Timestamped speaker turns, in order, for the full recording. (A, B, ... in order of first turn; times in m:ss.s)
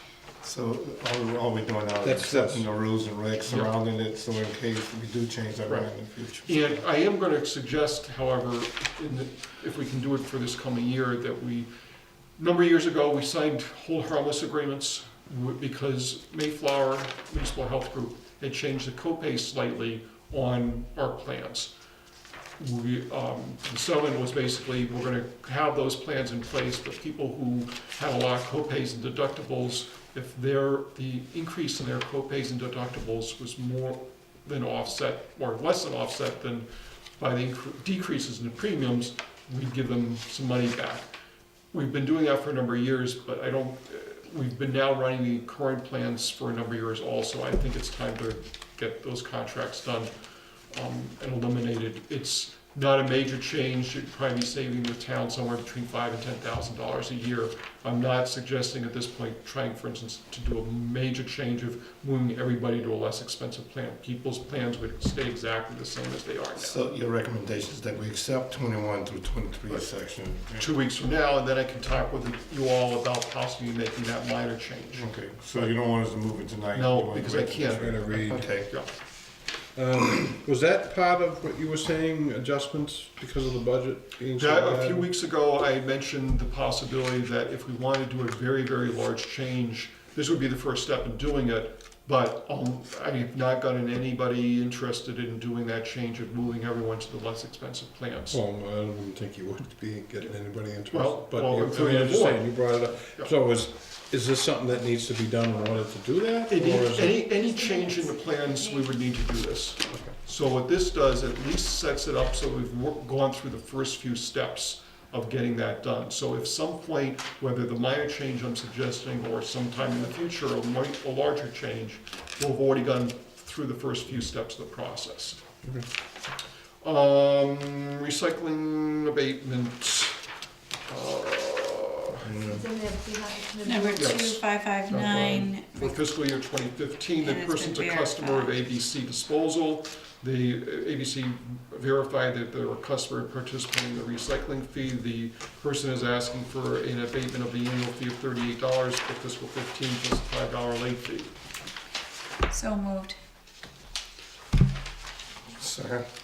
0:00.4-0:06.8 A
0:02.0-0:02.7 B
0:05.7-0:11.7 C
0:12.4-0:21.7 C
0:22.6-0:36.7 C
0:37.2-0:41.1 C
0:41.7-0:50.1 C
0:50.7-1:06.9 C
1:06.6-1:10.7 A
1:10.6-1:15.7 C
1:14.9-1:18.7 A
1:16.7-1:18.9 C
1:17.7-1:18.8 B
1:19.7-1:25.1 B
1:24.4-1:38.4 C
1:38.3-1:47.2 B
1:40.9-1:43.3 C
1:46.5-2:05.4 C
1:47.3-1:48.9 D
2:06.8-2:10.3 C
2:10.9-2:12.3 C
2:12.3-2:12.6 A
2:12.4-2:14.3 D
2:13.6-2:16.0 E
2:14.0-2:31.3 C
2:17.2-2:18.6 E
2:32.5-2:33.2 E
2:35.6-2:36.0 A